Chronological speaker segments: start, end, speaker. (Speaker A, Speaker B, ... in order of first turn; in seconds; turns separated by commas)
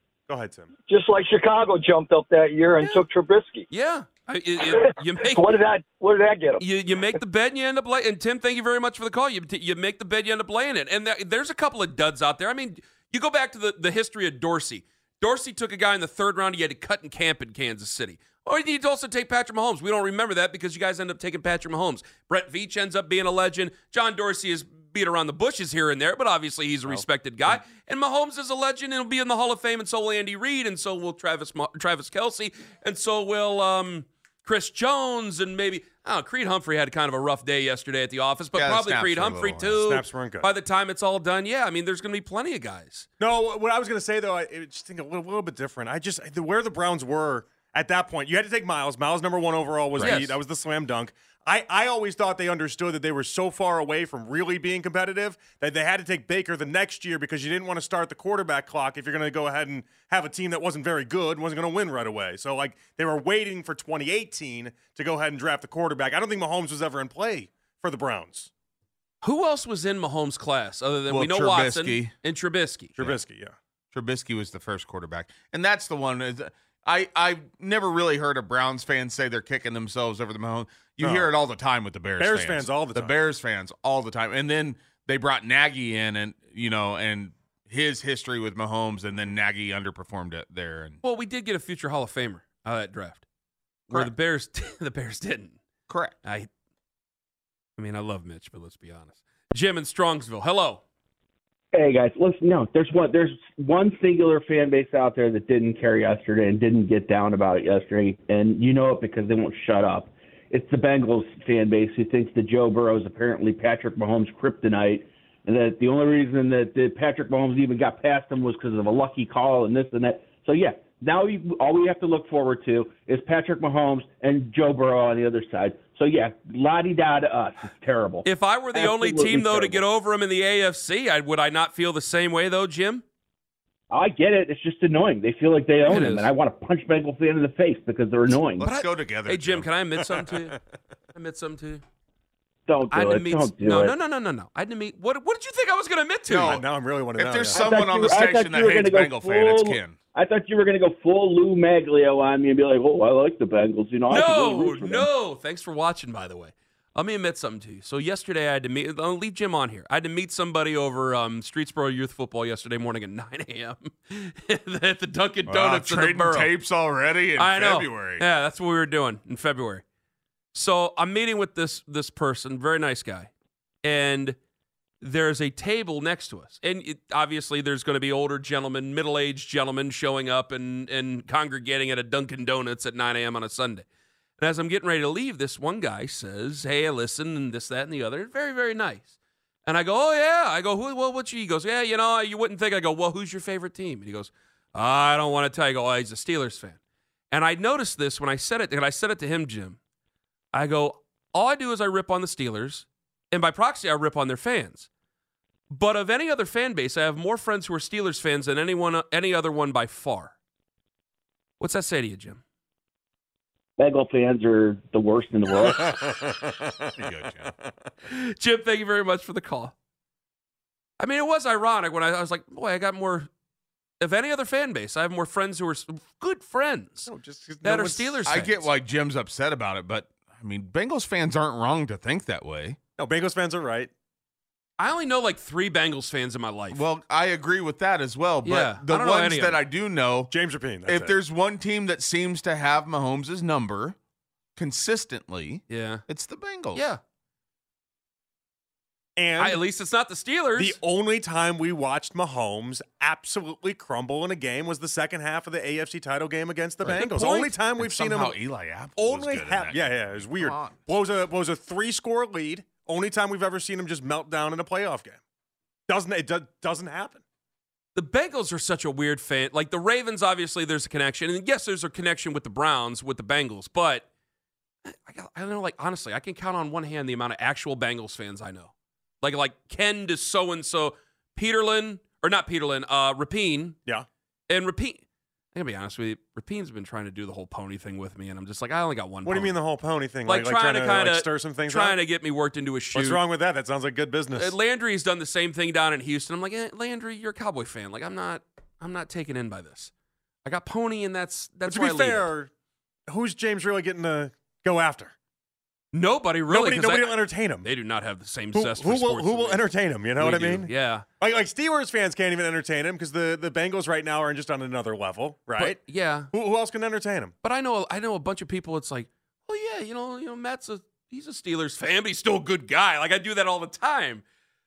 Speaker A: 0.3-0.7, Speaker B: 0.9-3.6, Speaker C: 2.8-3.0, Speaker C: 3.7-5.6, Speaker B: 4.8-6.6, Speaker C: 6.6-43.1, Speaker D: 38.5-39.8, Speaker A: 39.8-40.5, Speaker A: 43.2-68.5, Speaker C: 50.0-50.4, Speaker C: 69.2-72.9, Speaker D: 71.1-72.1, Speaker A: 73.0-73.5, Speaker D: 73.9-91.0, Speaker A: 81.0-81.3, Speaker A: 82.2-83.1, Speaker C: 91.0-93.2, Speaker C: 93.9-95.6, Speaker D: 95.9-96.2, Speaker C: 96.2-96.5, Speaker C: 97.8-100.8, Speaker E: 101.7-129.8, Speaker C: 128.2-133.0, Speaker E: 133.9-138.7, Speaker C: 135.8-136.3, Speaker D: 138.6-139.7, Speaker C: 138.6-140.6, Speaker C: 141.1-141.8, Speaker E: 142.7-143.9, Speaker C: 142.9-146.6, Speaker D: 146.3-150.0, Speaker A: 146.4-147.6, Speaker E: 147.5-155.1, Speaker C: 154.1-166.5, Speaker D: 165.4-168.2, Speaker C: 167.4-169.8, Speaker C: 170.5-173.3, Speaker C: 173.8-174.4, Speaker C: 175.0-183.8, Speaker C: 184.4-189.1, Speaker C: 189.7-196.8, Speaker C: 197.3-199.8, Speaker C: 200.5-204.9, Speaker C: 205.7-210.3, Speaker C: 211.6-212.4, Speaker E: 213.8-216.0, Speaker A: 215.6-216.9, Speaker D: 216.9-217.5, Speaker C: 218.1-219.7, Speaker C: 221.0-223.3, Speaker C: 224.0-227.1, Speaker A: 227.1-228.5, Speaker C: 227.6-228.6, Speaker D: 228.2-232.8, Speaker A: 233.0-233.9, Speaker C: 234.8-236.8, Speaker D: 236.7-240.3, Speaker C: 238.4-239.6, Speaker A: 240.3-241.1, Speaker D: 240.8-244.0, Speaker D: 244.6-246.8, Speaker C: 245.7-246.0, Speaker C: 246.7-247.0, Speaker A: 249.2-249.6, Speaker C: 249.4-250.8, Speaker A: 250.6-258.4, Speaker C: 256.9-257.5, Speaker D: 257.8-260.8, Speaker A: 258.9-265.2, Speaker A: 265.9-267.2, Speaker C: 267.9-274.1, Speaker C: 274.8-283.8, Speaker C: 284.5-285.0, Speaker C: 285.5-289.6, Speaker A: 289.2-292.0, Speaker C: 290.2-293.2, Speaker A: 292.9-294.5, Speaker C: 294.4-299.9, Speaker C: 300.4-302.3, Speaker A: 301.7-302.5, Speaker A: 303.1-305.1, Speaker C: 305.9-309.6, Speaker A: 306.5-307.7, Speaker A: 308.5-315.8, Speaker C: 310.2-311.0, Speaker C: 315.6-316.3, Speaker A: 316.3-317.3, Speaker C: 317.4-324.2